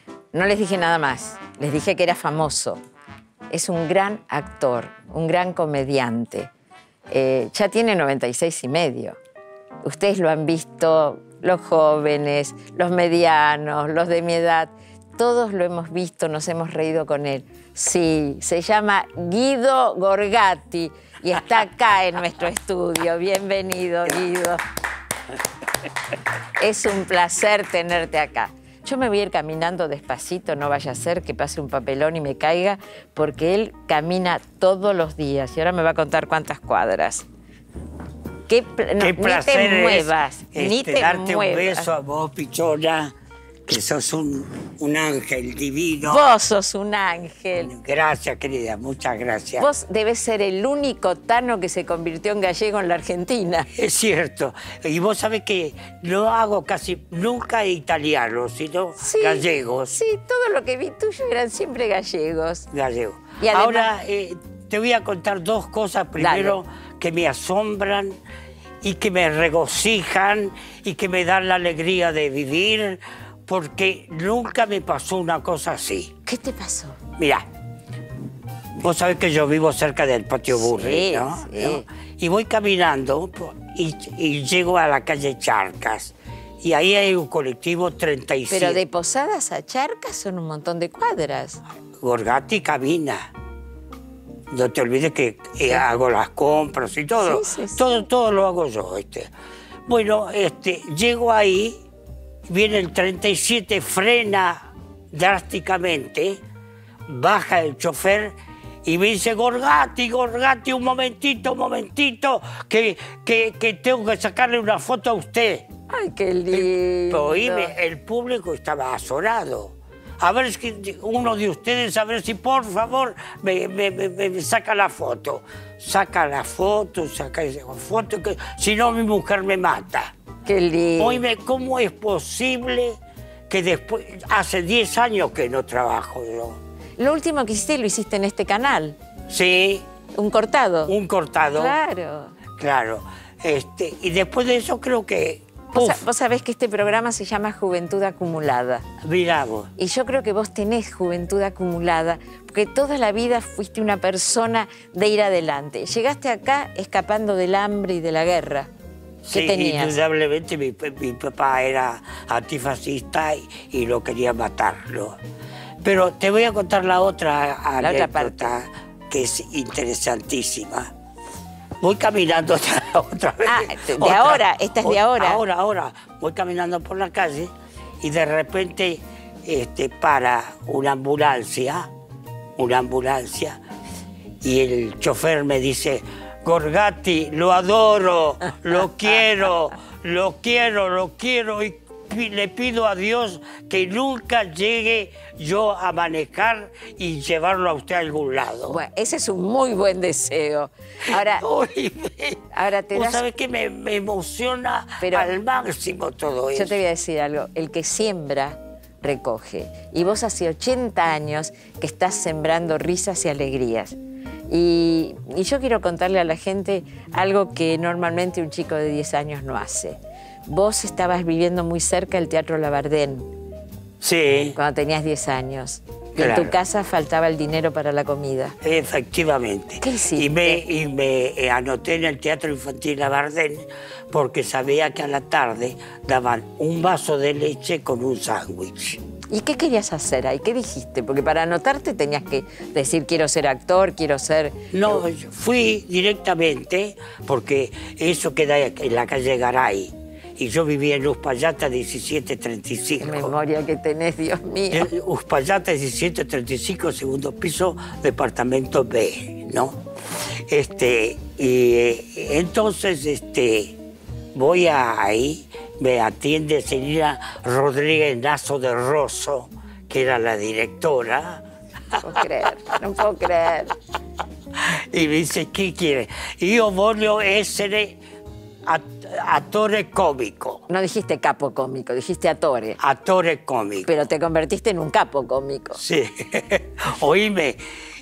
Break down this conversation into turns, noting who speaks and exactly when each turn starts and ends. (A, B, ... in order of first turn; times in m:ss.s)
0:00.3-0:02.8 A
0:03.5-0:06.5 A
0:07.1-0:09.2 A
0:09.8-0:24.6 A
0:26.6-0:37.2 A
0:38.5-0:41.9 A
0:39.0-0:43.1 B
0:43.7-0:46.2 B
0:46.0-0:47.7 A
0:47.6-0:49.7 B
0:49.6-0:53.7 A
0:53.7-1:00.0 B
0:59.0-1:02.7 A
1:02.7-1:08.2 B
1:03.4-1:03.9 A
1:06.2-1:06.6 A
1:08.8-1:16.1 B
1:16.2-1:17.0 A
1:17.2-1:17.4 B
1:18.8-1:28.8 B
1:20.5-1:21.8 A
1:28.5-1:31.6 A
1:32.0-1:33.3 B
1:34.5-1:39.3 B
1:37.2-1:37.8 A
1:39.9-1:41.8 B
1:42.5-1:46.4 B
1:47.1-1:55.7 B
1:55.9-1:57.7 A
1:56.5-2:10.1 B
2:10.4-2:11.2 A
2:11.0-2:13.0 B
2:13.5-2:16.6 B
2:17.0-2:19.0 A
2:19.3-2:19.8 B
2:20.1-2:20.9 A
2:20.9-2:21.7 B
2:21.5-2:22.4 A
2:22.6-2:26.0 B
2:25.7-2:28.8 A
2:29.0-2:29.7 B
2:29.8-2:38.7 A
2:39.2-2:45.2 B
2:39.3-2:40.0 A
2:45.8-2:50.9 B
2:47.8-2:48.5 A
2:51.8-3:01.9 B
2:53.4-2:55.4 A
3:02.6-3:03.6 B
3:04.4-3:18.8 B
3:18.7-3:21.4 A
3:21.1-3:26.8 B
3:22.5-3:23.2 A
3:25.0-3:25.3 A
3:26.5-3:34.0 A
3:34.5-3:43.3 A
3:44.0-3:44.6 B
3:44.5-3:48.5 A
3:46.2-3:46.5 B
3:48.6-3:59.0 B
3:49.8-3:50.6 A
3:59.3-4:04.6 A
4:04.7-4:13.3 B
4:13.0-4:14.9 A
4:14.7-4:19.8 B
4:20.5-4:23.7 B
4:24.3-4:31.4 B
4:32.0-4:33.7 A
4:34.7-4:38.0 B
4:38.7-4:40.6 B
4:40.7-4:42.8 A
4:42.8-4:43.9 B
4:43.8-4:45.8 A
4:45.8-4:47.6 B